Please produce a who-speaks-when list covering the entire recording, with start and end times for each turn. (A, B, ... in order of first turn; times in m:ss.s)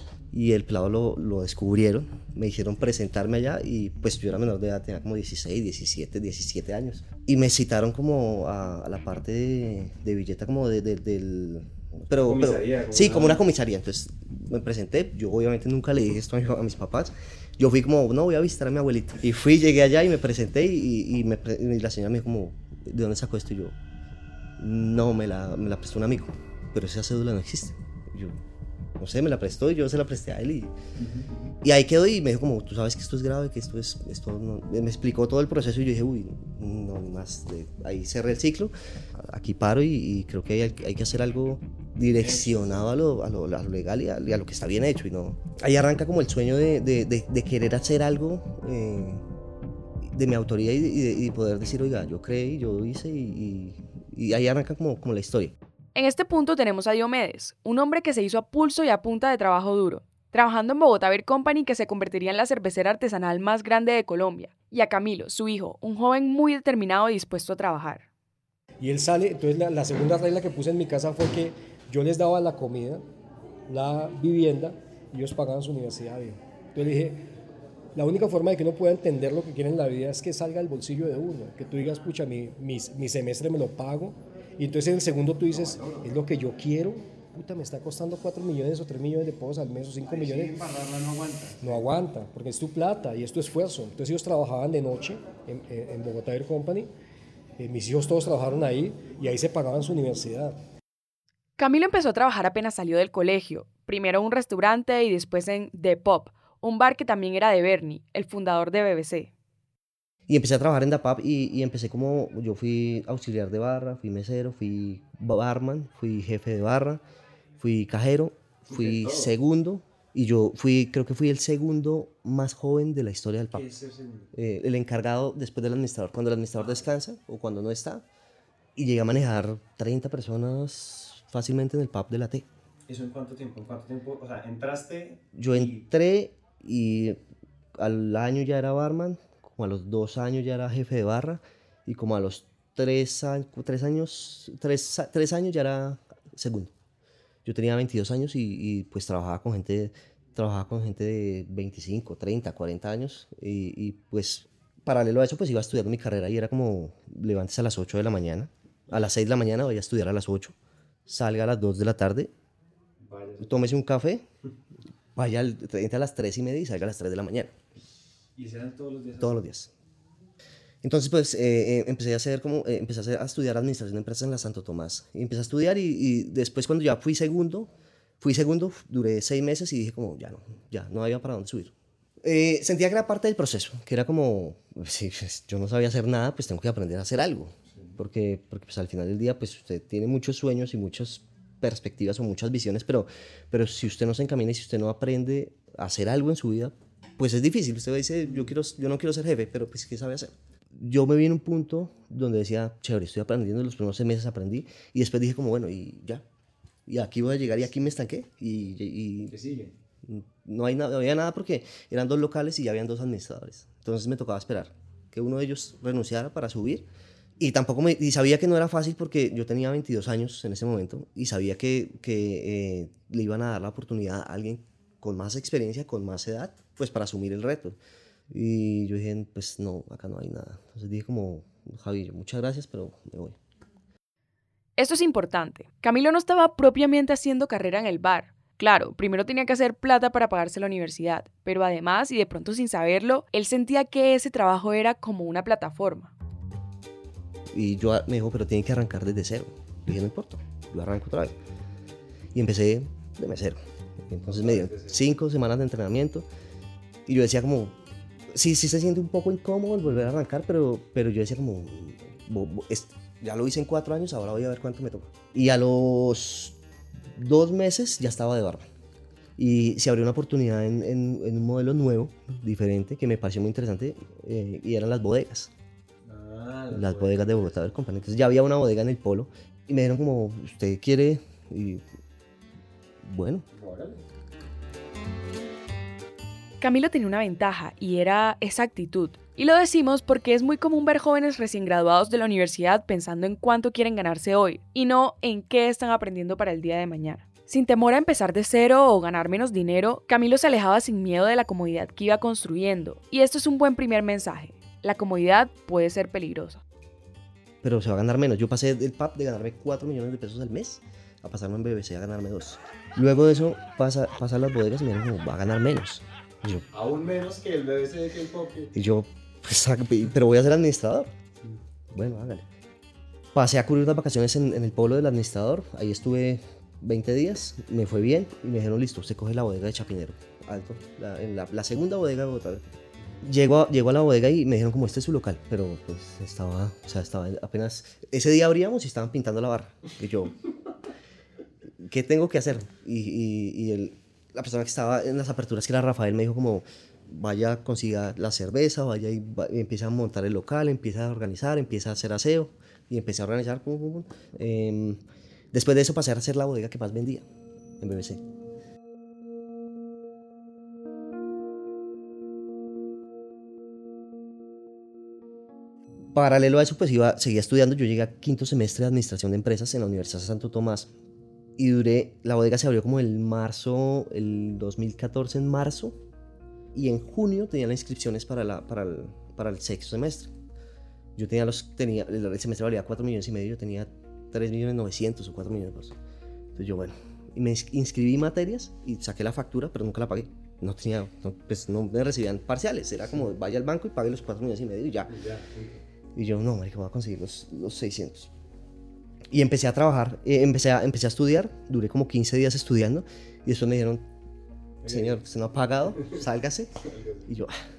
0:00.3-0:23.8 A
0:12.1-0:13.4 B
0:24.6-0:28.4 A
0:29.0-0:30.7 A
0:31.0-0:31.3 B
0:31.6-0:49.2 A
0:42.1-0:42.9 B
0:50.0-0:55.5 A
0:56.0-1:08.0 C
1:08.8-1:13.0 D
1:13.7-1:17.2 D
1:18.0-1:30.6 D
1:25.5-1:26.1 B
1:30.0-1:31.8 B
1:31.6-1:36.9 D
1:37.6-1:40.6 D
1:41.6-1:49.3 C
1:50.3-1:57.0 A
1:57.6-2:03.7 A
1:58.7-1:59.3 B
2:03.5-2:04.3 B
2:04.3-2:08.0 A
2:08.8-2:12.5 A
2:12.9-2:15.8 B
2:15.4-2:17.2 A
2:17.8-2:26.7 A
2:27.4-2:40.5 A
2:41.1-2:42.3 A
2:43.0-2:43.7 B
2:43.4-2:44.2 A
2:45.2-2:47.5 A
2:48.4-2:49.4 B
2:49.2-2:49.7 A
2:50.8-3:26.2 A
3:26.9-3:29.4 A
3:29.3-3:29.7 B
3:30.0-3:36.9 A
3:37.4-3:47.8 A
3:48.3-3:53.4 A
3:54.8-4:06.1 C
4:07.5-4:11.4 A
4:12.3-4:16.2 A
4:14.2-4:15.0 B
4:17.0-4:17.8 A
4:18.3-4:26.6 A
4:27.1-4:28.6 A
4:29.4-4:35.5 A
4:36.0-4:37.2 B
4:36.7-4:41.8 A
4:43.0-4:43.4 A
4:43.5-4:44.0 B
4:46.6-5:06.6 C
5:07.6-5:16.6 A
5:16.7-5:18.7 B
5:18.7-5:21.1 A
5:21.9-5:22.4 A
5:23.3-5:32.6 A
5:33.2-5:40.4 A
5:41.8-5:57.2 A
5:57.8-5:58.2 A
6:06.1-6:10.9 A
6:11.6-6:16.0 A
6:16.7-6:20.3 A
6:21.2-6:26.0 A
6:26.5-6:35.2 A
6:35.1-6:35.8 B
6:36.1-6:38.3 A
6:39.3-6:44.0 A
6:44.8-6:45.2 B
6:44.8-6:46.7 A
6:46.9-6:47.2 B
6:47.2-6:47.5 A